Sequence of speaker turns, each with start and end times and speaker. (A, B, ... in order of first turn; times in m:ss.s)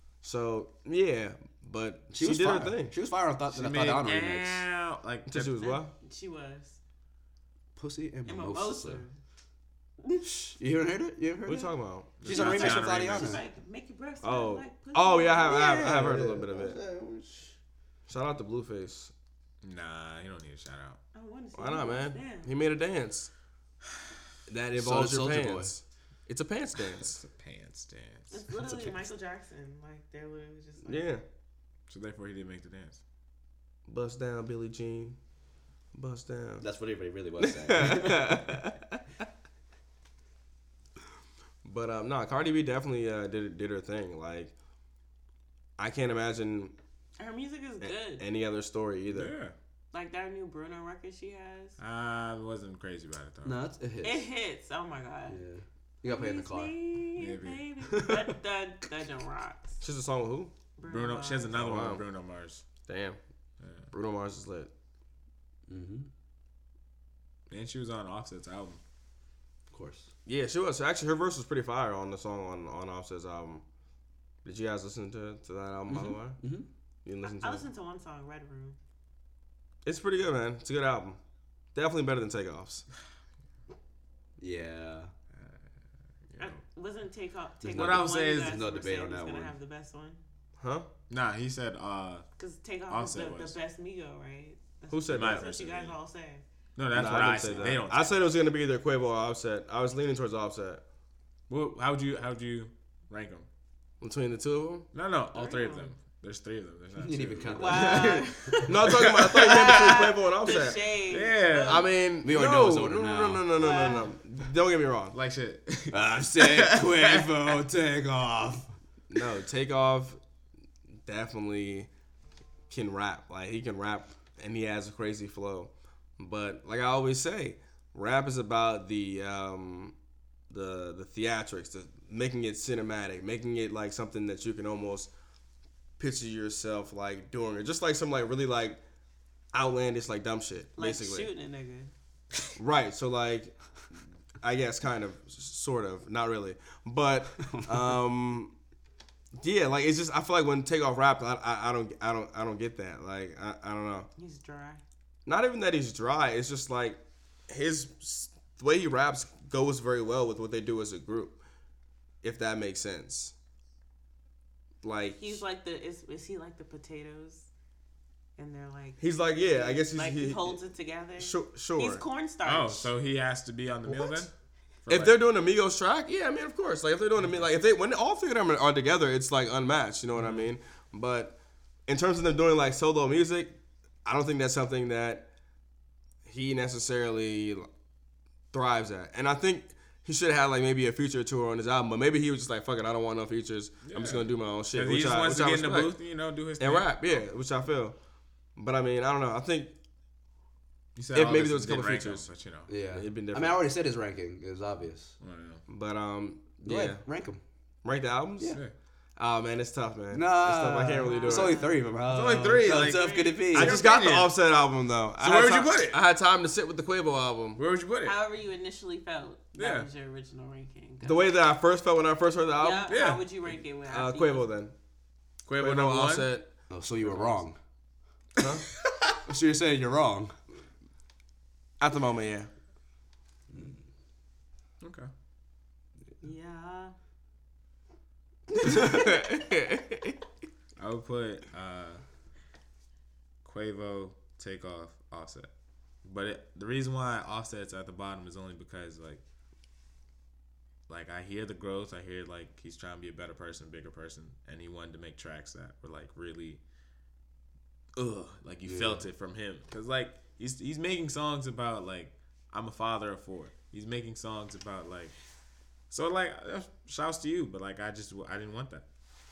0:00.2-0:02.9 A
0:02.1-0:04.6 B
0:03.5-0:05.6 C
0:05.3-0:05.9 A
0:05.6-0:06.8 D
0:07.8-0:09.0 B
0:08.3-0:09.1 D
0:10.2-0:13.4 B
0:11.4-0:12.2 A
0:12.2-0:13.4 C
0:12.3-0:15.7 D
0:14.2-0:16.8 A
0:15.4-0:17.6 B
0:18.1-0:19.1 A
0:19.6-0:21.0 C
0:21.1-0:22.5 D
0:21.6-0:23.3 A
0:24.5-0:27.2 A
0:24.8-0:25.7 B
0:27.0-0:28.4 C
0:28.3-0:31.1 D
0:30.8-0:31.2 A
0:31.9-0:33.0 C
0:33.9-0:35.2 A
0:35.9-0:36.7 A
0:36.6-0:38.6 B
0:37.4-0:39.0 A
0:41.6-0:44.5 A
0:45.8-0:46.7 A
0:47.2-0:48.2 D
0:47.8-0:49.3 A
0:49.1-0:49.5 C
0:49.9-0:51.8 D
0:51.8-0:53.6 C
0:53.4-0:54.3 B
0:54.0-0:55.4 D
0:55.3-0:56.8 B
0:56.1-0:59.8 D
0:57.2-0:57.6 C
0:57.9-0:58.3 B
0:59.8-1:00.5 A
1:00.8-1:01.6 D
1:00.9-1:02.6 C
1:01.5-1:02.0 A
1:02.9-1:03.2 A
1:03.6-1:03.9 C
1:03.9-1:04.7 A
1:05.7-1:06.1 B
1:07.5-1:08.8 C
1:09.7-1:10.1 B
1:10.3-1:13.6 A
1:14.4-1:16.4 A
1:15.9-1:16.7 B
1:17.0-1:17.7 A
1:17.2-1:18.8 D
1:19.8-1:21.2 A
1:21.7-1:22.8 A
1:24.4-1:25.1 B
1:26.3-1:26.6 C
1:26.4-1:30.2 D
1:27.6-1:29.5 B
1:27.7-1:28.6 C
1:30.6-1:30.9 A
1:31.1-1:32.3 C
1:32.4-1:36.4 D
1:32.9-1:33.6 C
1:34.9-1:35.5 A
1:35.1-1:36.0 C
1:36.8-1:38.2 C
1:36.9-1:40.8 A
1:41.5-1:43.4 C
1:44.0-1:44.9 A
1:44.9-1:50.1 C
1:45.3-1:45.9 D
1:47.0-1:48.3 B
1:47.6-1:51.9 D
1:48.7-1:50.8 A
1:51.1-1:51.9 C
1:51.6-1:55.1 A
1:52.2-1:54.0 B
1:53.6-1:54.1 D
1:55.1-1:57.6 C
1:55.9-1:58.7 B
1:59.1-2:00.2 A
2:01.0-2:01.9 A
2:02.7-2:10.0 A
2:10.5-2:15.1 A
2:16.0-2:18.8 A
2:19.5-2:21.3 A
2:20.8-2:21.9 D
2:22.6-2:23.5 A
2:24.4-2:28.5 A
2:27.4-2:28.0 B
2:29.4-2:34.1 A
2:34.2-2:34.8 D
2:35.3-2:41.4 A
2:42.2-2:43.3 A
2:44.8-2:45.4 A
2:45.2-2:47.5 D
2:48.4-2:52.9 D
2:49.0-2:50.6 A
2:51.2-2:52.0 A
2:52.4-2:54.3 C
2:54.8-2:55.2 C
2:54.9-3:01.4 A
3:00.1-3:00.5 C
3:01.9-3:05.3 A
3:06.3-3:07.7 A
3:08.5-3:15.9 A
3:13.8-3:17.2 C
3:16.6-3:18.0 A
3:18.6-3:19.7 A
3:21.0-3:22.7 C
3:21.1-3:22.3 A
3:22.7-3:25.1 B
3:22.9-3:23.6 A
3:25.2-3:25.6 C
3:25.7-3:27.0 A
3:26.6-3:27.4 B
3:27.8-3:28.6 A
3:29.2-3:31.6 A
3:30.1-3:33.8 B
3:31.0-3:31.8 D
3:32.0-3:34.3 C
3:32.7-3:33.4 D
3:33.5-3:37.6 A
3:35.2-3:36.0 C
3:37.6-3:38.2 C
3:38.0-3:41.4 D
3:39.6-3:39.9 C
3:41.0-3:42.9 A
3:42.6-3:44.5 D
3:42.9-3:43.2 C
3:43.9-3:44.7 A
3:45.4-3:46.3 C
3:45.6-3:46.5 A
3:46.7-3:47.6 B
3:47.0-3:47.4 C
3:48.4-3:48.7 A
3:49.3-3:50.3 B
3:51.8-3:52.5 A
3:54.8-3:55.1 C
3:56.2-3:56.9 D
3:58.6-4:00.1 A
3:58.7-3:59.0 D
4:00.8-4:02.0 C
4:03.4-4:05.5 C
4:06.0-4:09.2 C
4:10.9-4:16.6 C
4:18.0-4:25.1 C
4:18.6-4:19.0 B
4:25.9-4:28.8 C